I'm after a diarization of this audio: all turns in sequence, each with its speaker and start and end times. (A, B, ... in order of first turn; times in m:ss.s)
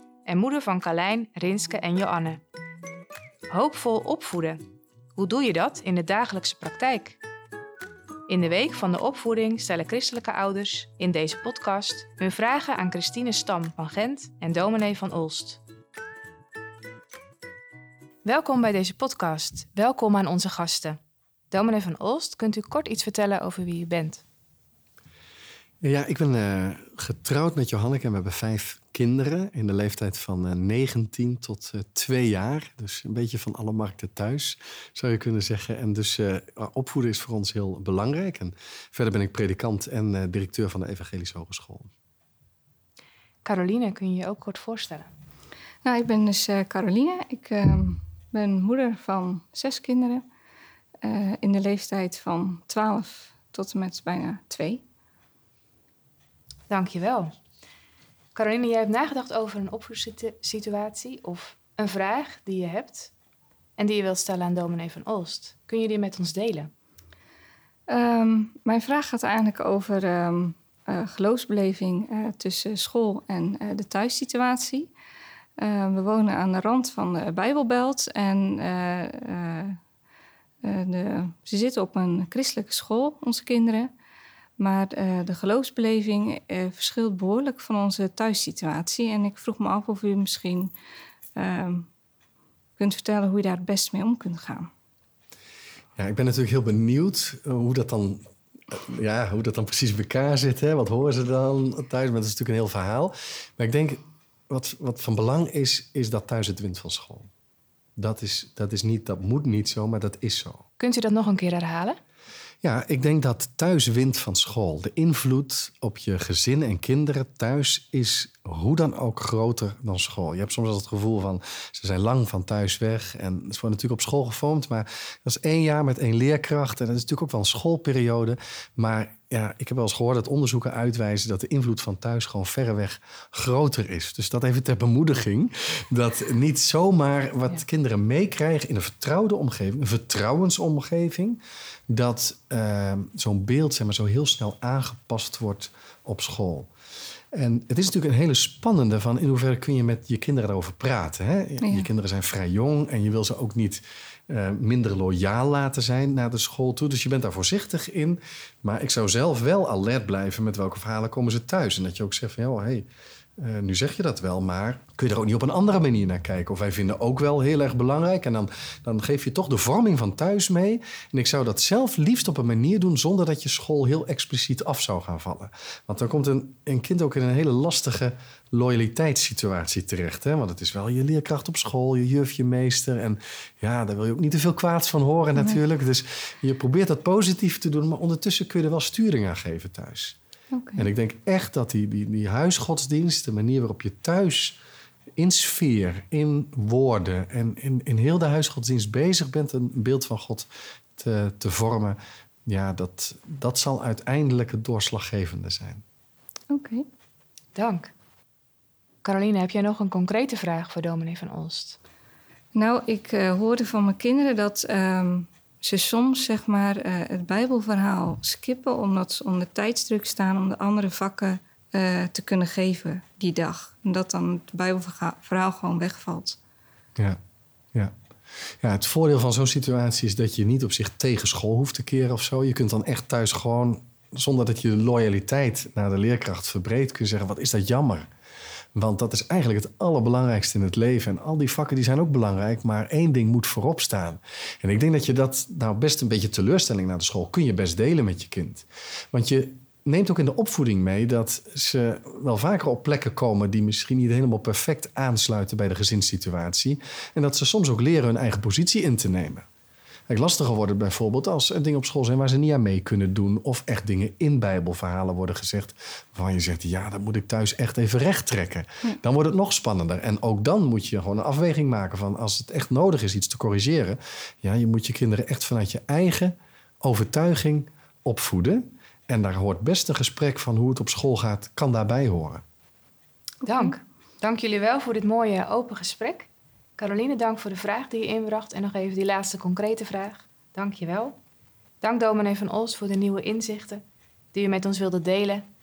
0:00.3-0:02.4 A
0:03.5-0:04.6 A
0:05.2-0:07.2 A
0:08.3-0:15.6 A
0:18.2-0:21.0 A
0:21.5-0:24.2 A
0:25.8-0:41.9 B
0:43.4-0:45.1 A
0:45.8-0:50.2 C
0:51.0-0:54.8 C
0:56.7-0:57.3 A
0:58.4-1:03.1 A
1:03.8-1:06.7 A
1:07.9-1:14.9 C
1:15.6-1:19.8 C
1:20.6-1:23.9 C
1:24.6-1:30.7 C
1:31.4-1:31.9 C
1:32.8-1:34.7 C
1:36.0-1:47.3 B
1:48.0-1:50.6 B
1:50.8-1:52.0 A
1:52.6-2:26.7 B
2:27.3-2:42.9 B
2:31.6-2:31.9 C
2:43.4-3:10.2 B
3:10.5-3:10.9 C
3:10.8-3:14.6 B
3:15.2-3:25.8 B
3:26.5-3:26.9 C
3:27.6-3:27.9 A
3:29.0-3:31.8 A
3:32.5-3:46.4 C
3:48.6-3:58.1 B
3:58.8-4:19.5 B
4:20.1-4:42.4 B
4:43.4-4:51.2 A
4:51.8-4:55.5 A